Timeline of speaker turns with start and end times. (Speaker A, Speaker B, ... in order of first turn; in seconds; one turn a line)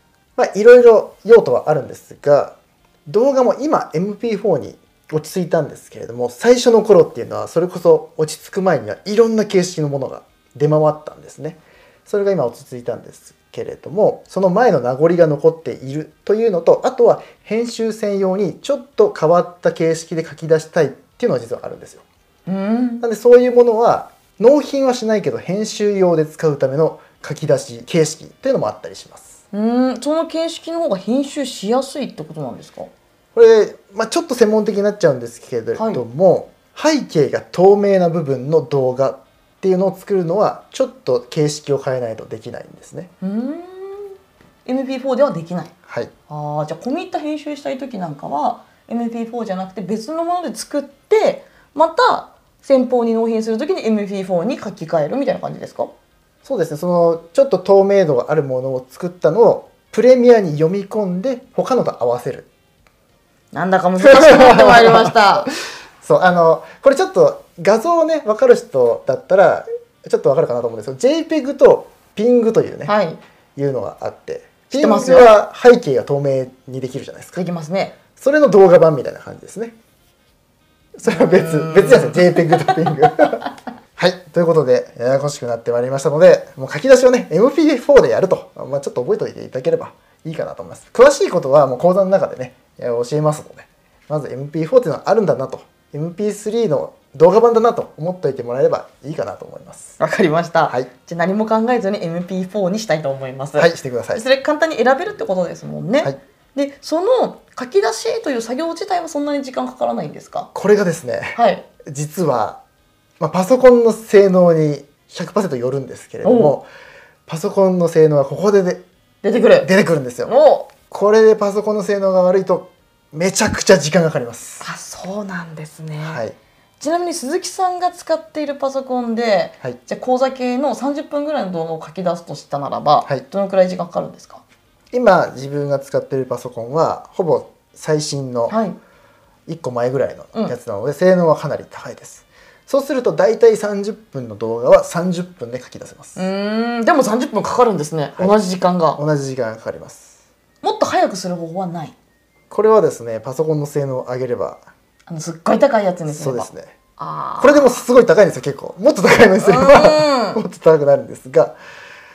Speaker A: 0.4-22.0
Speaker B: 22.5-23.0
Speaker A: 23.0-29.4
Speaker B: 29.5-32.9
Speaker A: 33.4-43.1
Speaker B: 35.8-36.0
Speaker B: 43.2-45.7
Speaker B: 46.3-55.9
Speaker A: 56.4-62.5
Speaker B: 63.5-65.5
Speaker A: 64.0-65.2
Speaker A: 66.0-72.9
Speaker B: 72.9-73.2
Speaker A: 73.6-77.4
Speaker B: 74.7-75.3
Speaker B: 77.3-78.0
Speaker A: 78.2-79.8
Speaker A: 81.0-83.5
Speaker B: 81.0-83.3
Speaker A: 84.0-100.0
Speaker B: 100.0-110.5
Speaker A: 103.6-104.2
Speaker A: 110.5-112.6
Speaker B: 111.3-111.7
Speaker A: 113.2-116.7
Speaker B: 116.2-116.6
Speaker A: 117.3-118.8
Speaker B: 119.2-119.7
Speaker A: 119.6-120.3
Speaker B: 120.2-120.7
Speaker A: 120.9-124.6
Speaker B: 124.6-126.2
Speaker A: 126.0-126.4
Speaker B: 126.8-134.4
Speaker A: 134.9-138.6
Speaker B: 138.5-138.8
Speaker A: 139.5-146.2
Speaker B: 146.2-149.0
Speaker A: 149.0-150.2
Speaker B: 150.6-151.9
Speaker A: 152.5-154.7
Speaker B: 155.1-157.8
Speaker A: 156.1-156.7
Speaker A: 157.4-161.6
Speaker B: 159.4-160.4